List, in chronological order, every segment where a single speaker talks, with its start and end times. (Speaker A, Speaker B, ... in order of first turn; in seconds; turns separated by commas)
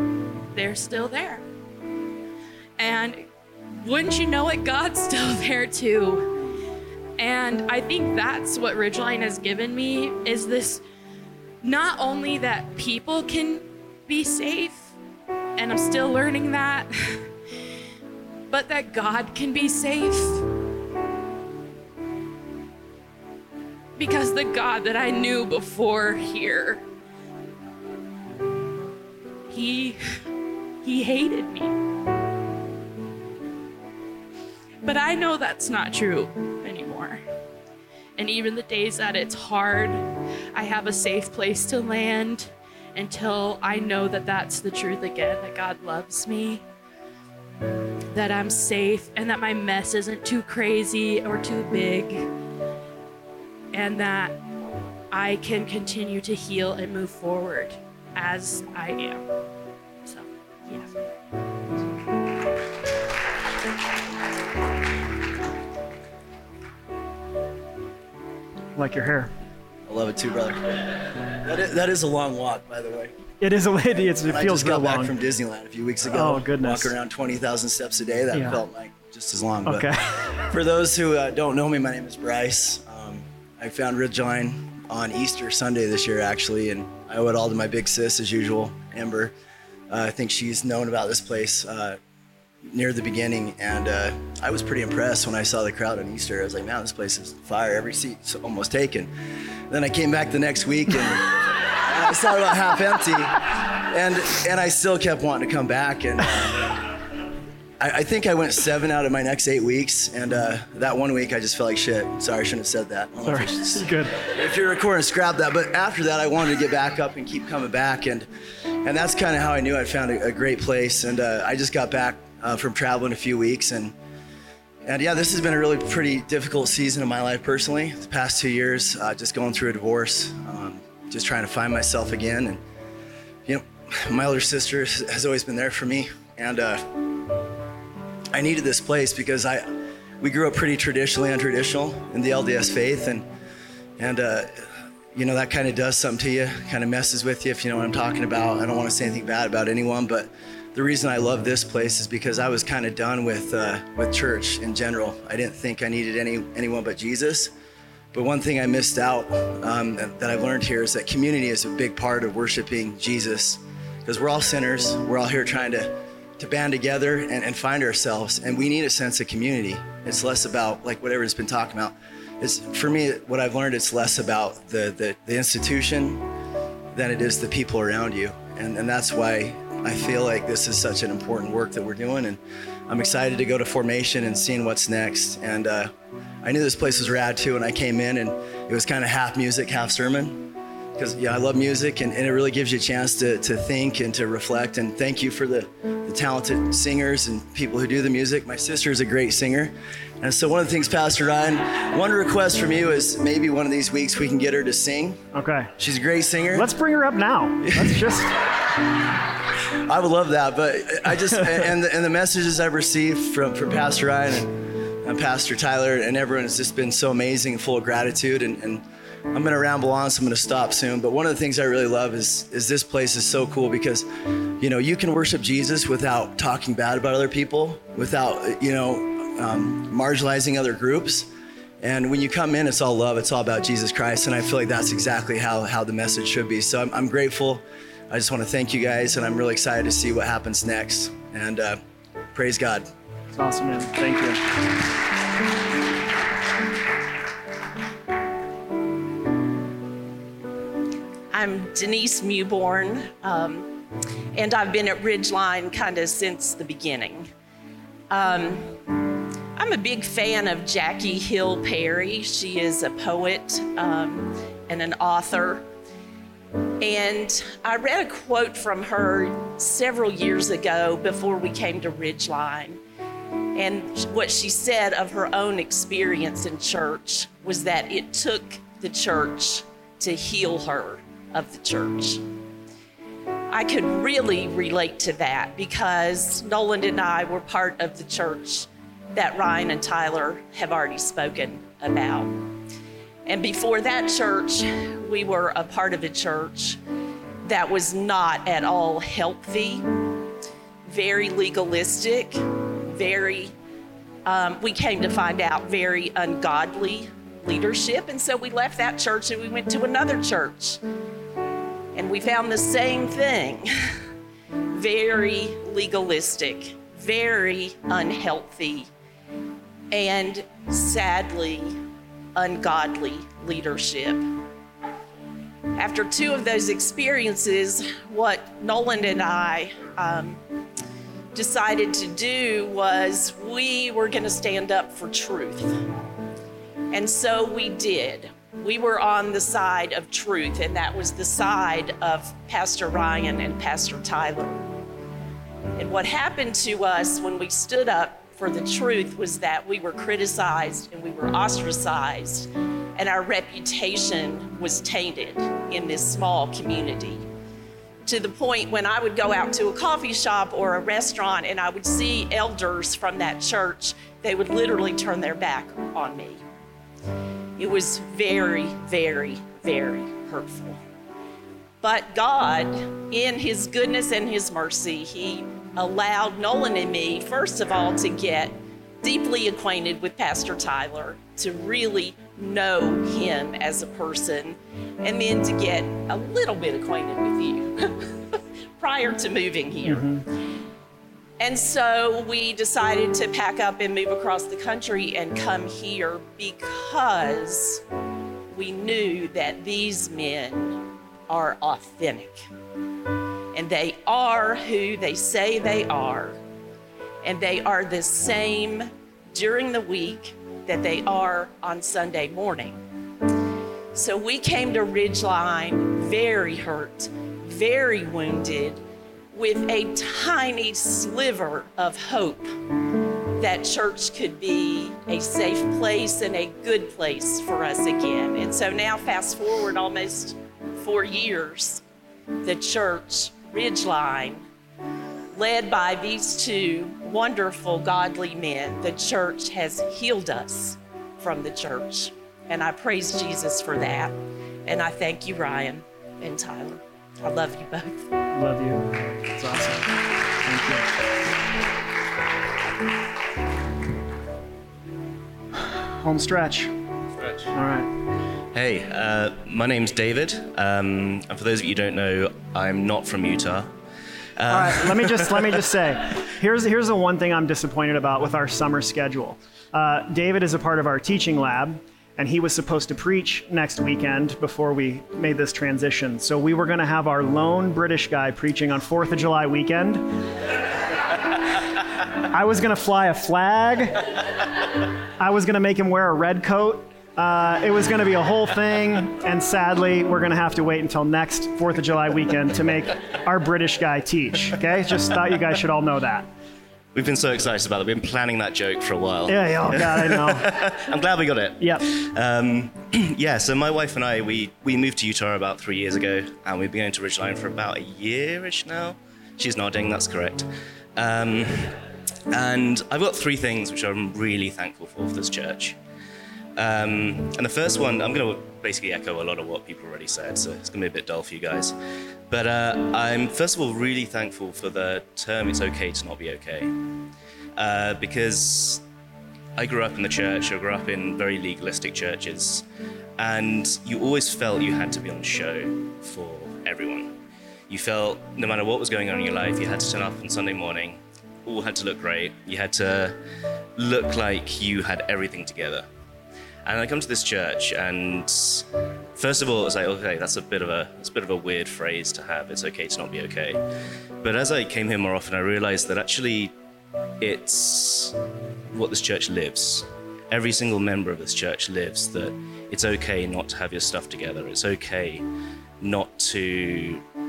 Speaker A: 0.5-1.4, Speaker A: 2.8-3.3, Speaker A: 3.8-6.4, Speaker A: 7.2-10.8, Speaker A: 11.6-14.9, Speaker A: 15.6-17.2, Speaker A: 18.5-20.4, Speaker A: 24.0-26.8, Speaker A: 29.5-30.0, Speaker A: 30.8-31.8, Speaker A: 34.8-37.2, Speaker A: 38.2-46.6, Speaker A: 48.1-52.3, Speaker A: 53.7-54.4, Speaker A: 55.1-59.2, Speaker A: 60.0-60.9, Speaker B: 68.8-69.3, Speaker C: 69.9-70.8, Speaker C: 71.4-73.1, Speaker B: 73.4-75.1, Speaker C: 74.3-89.3, Speaker B: 76.1-77.0, Speaker B: 78.3-78.6, Speaker B: 79.7-80.1, Speaker C: 89.9-92.0, Speaker C: 92.7-99.1, Speaker C: 99.7-101.3, Speaker C: 101.9-106.7, Speaker C: 107.8-118.3, Speaker B: 113.2-114.1, Speaker C: 118.8-124.0, Speaker C: 124.9-132.6, Speaker C: 133.5-137.0, Speaker C: 138.3-143.3, Speaker C: 144.0-157.5, Speaker C: 158.1-176.2, Speaker C: 176.9-185.9, Speaker C: 186.4-205.2, Speaker B: 205.3-205.7, Speaker C: 205.8-206.7, Speaker B: 206.5-208.3, Speaker C: 207.7-208.0, Speaker C: 209.9-224.1, Speaker C: 224.6-231.3, Speaker C: 231.8-241.8, Speaker C: 242.3-242.9, Speaker B: 243.3-244.4, Speaker D: 251.3-253.8, Speaker D: 254.3-257.3, Speaker D: 258.1-258.8, Speaker D: 259.6-265.7, Speaker D: 266.8-272.8, Speaker D: 273.6-282.2, Speaker D: 283.5-292.3, Speaker D: 293.3-296.8, Speaker D: 297.4-299.9, Speaker D: 300.9-303.5, Speaker D: 304.2-310.8, Speaker D: 311.9-313.7, Speaker D: 314.7-318.9, Speaker D: 319.9-321.8, Speaker D: 322.4-324.2, Speaker D: 325.8-330.4, Speaker D: 331.3-335.8, Speaker D: 336.9-344.7, Speaker D: 345.8-357.2, Speaker D: 358.1-366.4, Speaker D: 367.6-370.8, Speaker D: 371.8-390.1, Speaker B: 389.8-390.2, Speaker D: 391.4-397.8, Speaker D: 398.5-402.5, Speaker D: 403.5-406.4, Speaker D: 407.2-412.8, Speaker D: 413.9-422.5, Speaker D: 423.4-431.8, Speaker D: 432.4-434.4, Speaker D: 435.3-444.1, Speaker D: 444.6-448.1, Speaker B: 448.3-450.9, Speaker B: 455.7-456.7, Speaker B: 457.5-457.9, Speaker E: 458.5-463.7, Speaker E: 464.4-465.5, Speaker B: 464.5-480.1, Speaker B: 482.3-484.0, Speaker B: 485.2-496.3, Speaker E: 496.9-511.8, Speaker B: 499.3-500.6, Speaker B: 501.6-501.9, Speaker E: 512.3-515.8, Speaker E: 516.6-521.8, Speaker E: 522.3-526.7, Speaker E: 527.6-528.9, Speaker E: 529.6-532.7, Speaker E: 533.2-537.2, Speaker E: 537.7-543.2, Speaker E: 543.8-545.9, Speaker E: 546.6-553.6, Speaker E: 554.2-556.5, Speaker E: 557.2-558.2, Speaker E: 558.7-565.3, Speaker E: 565.8-567.0